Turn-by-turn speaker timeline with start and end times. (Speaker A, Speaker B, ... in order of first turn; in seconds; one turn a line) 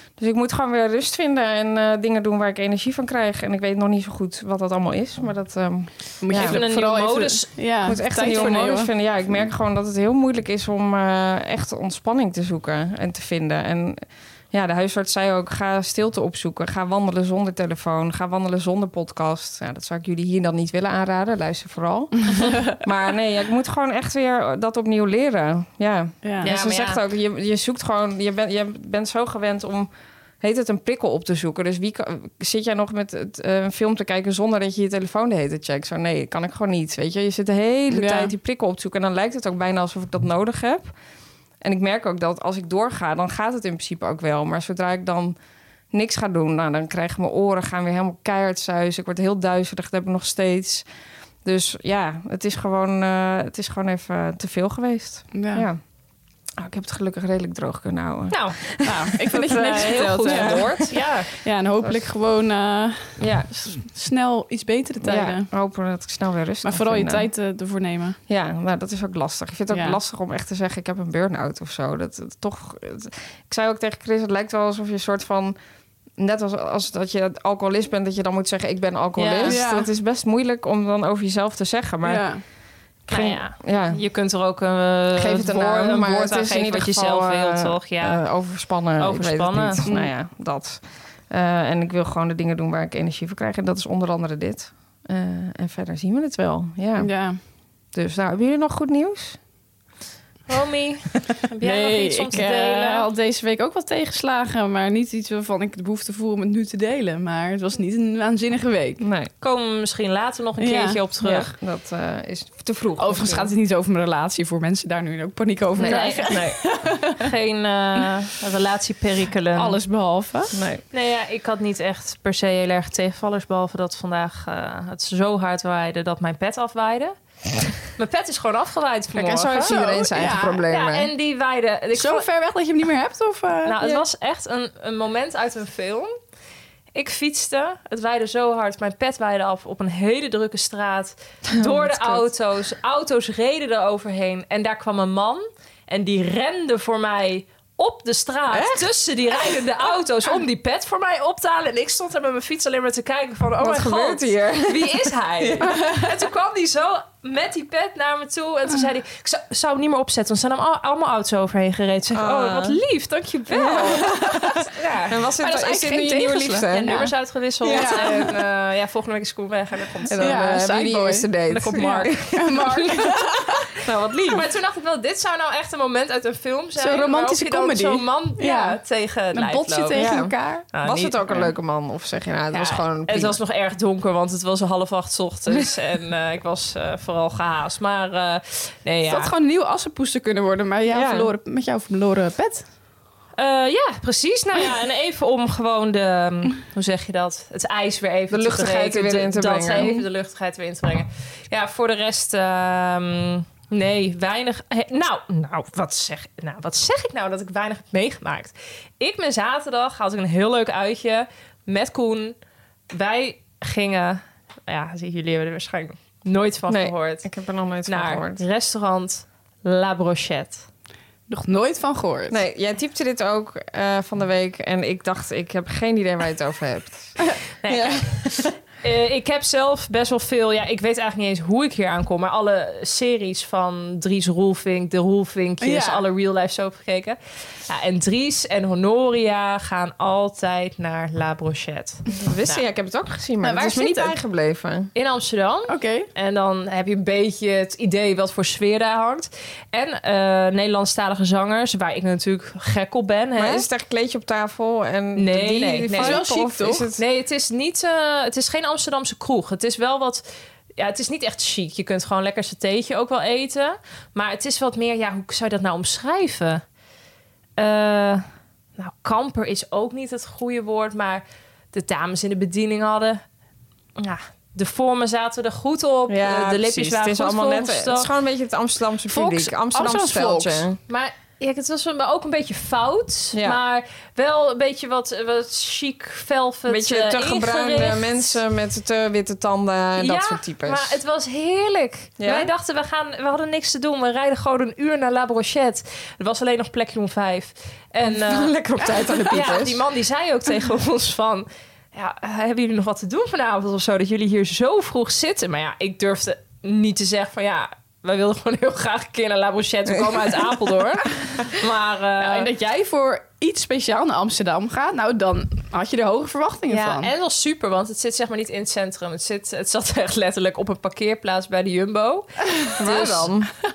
Speaker A: 0.2-6.6
Speaker B: 6.2-8.9
Speaker C: 6.3-7.5
Speaker A: 7.8-29.9
Speaker B: 26.2-26.5
Speaker C: 26.4-27.0
Speaker A: 30.4-40.9
Speaker B: 37.9-38.3
Speaker A: 41.6-45.4
Speaker A: 45.9-50.9
Speaker A: 51.4-55.8
Speaker B: 55.3-55.7
Speaker A: 56.6-61.2
Speaker C: 58.3-58.6
Speaker B: 58.8-65.5
Speaker C: 59.3-61.3
Speaker A: 63.2-63.5
Speaker A: 65.0-67.3
Speaker B: 66.6-68.2
Speaker A: 68.3-75.6
Speaker B: 69.7-70.0
Speaker A: 76.2-82.3
Speaker C: 79.2-79.6
Speaker B: 79.4-79.9
Speaker B: 82.0-82.4
Speaker A: 83.1-84.0
Speaker C: 83.1-88.2
Speaker A: 85.2-97.1
Speaker C: 89.0-89.8
Speaker B: 89.8-90.1
Speaker B: 97.0-97.4
Speaker A: 97.9-99.4
Speaker C: 100.5-103.1
Speaker B: 101.6-109.0
Speaker A: 109.0-109.3
Speaker C: 109.4-111.5
Speaker B: 110.6-111.0
Speaker A: 111.2-113.5
Speaker B: 113.0-117.3
Speaker A: 115.8-116.6
Speaker C: 115.8-116.4
Speaker C: 117.2-119.8
Speaker B: 119.6-120.6
Speaker A: 120.5-120.8
Speaker C: 120.9-127.1
Speaker C: 127.9-129.8
Speaker A: 129.2-131.1
Speaker B: 129.7-130.6
Speaker C: 130.7-132.2
Speaker B: 131.9-133.8
Speaker C: 133.7-136.1
Speaker C: 136.9-170.4
Speaker A: 141.6-142.2
Speaker A: 148.5-148.9
Speaker A: 153.6-155.7
Speaker A: 162.1-162.8
Speaker A: 163.5-167.1
Speaker B: 164.0-164.6
Speaker B: 166.0-166.9
Speaker A: 167.6-168.3
Speaker B: 167.7-168.3
Speaker A: 170.1-173.2
Speaker B: 170.2-173.7
Speaker C: 171.5-173.2
Speaker A: 173.8-174.5
Speaker C: 174.1-180.2
Speaker B: 176.8-178.8
Speaker B: 179.3-180.7
Speaker A: 179.9-183.4
Speaker C: 180.7-181.2
Speaker C: 182.5-189.3
Speaker B: 189.1-192.7
Speaker A: 190.9-191.3
Speaker C: 193.4-212.4
Speaker A: 198.3-200.1
Speaker C: 212.9-217.3
Speaker A: 216.7-218.4
Speaker C: 217.9-220.7
Speaker B: 221.3-222.4
Speaker A: 222.3-228.5
Speaker C: 227.6-242.6
Speaker B: 235.6-236.0
Speaker A: 242.1-244.9
Speaker B: 243.4-244.2
Speaker C: 244.9-253.7
Speaker B: 245.7-246.1
Speaker A: 253.4-257.0
Speaker C: 255.2-256.3
Speaker B: 255.9-256.9
Speaker C: 256.9-260.2
Speaker C: 260.8-266.6
Speaker C: 267.6-268.3
Speaker C: 268.8-273.2
Speaker C: 274.0-278.1
Speaker A: 276.1-280.8
Speaker B: 279.1-280.7
Speaker C: 280.9-288.4
Speaker A: 283.3-283.6
Speaker A: 286.7-290.9
Speaker C: 290.0-312.5
Speaker A: 292.2-292.5
Speaker A: 298.1-299.8
Speaker B: 312.2-317.1
Speaker C: 316.7-323.3
Speaker A: 322.8-323.5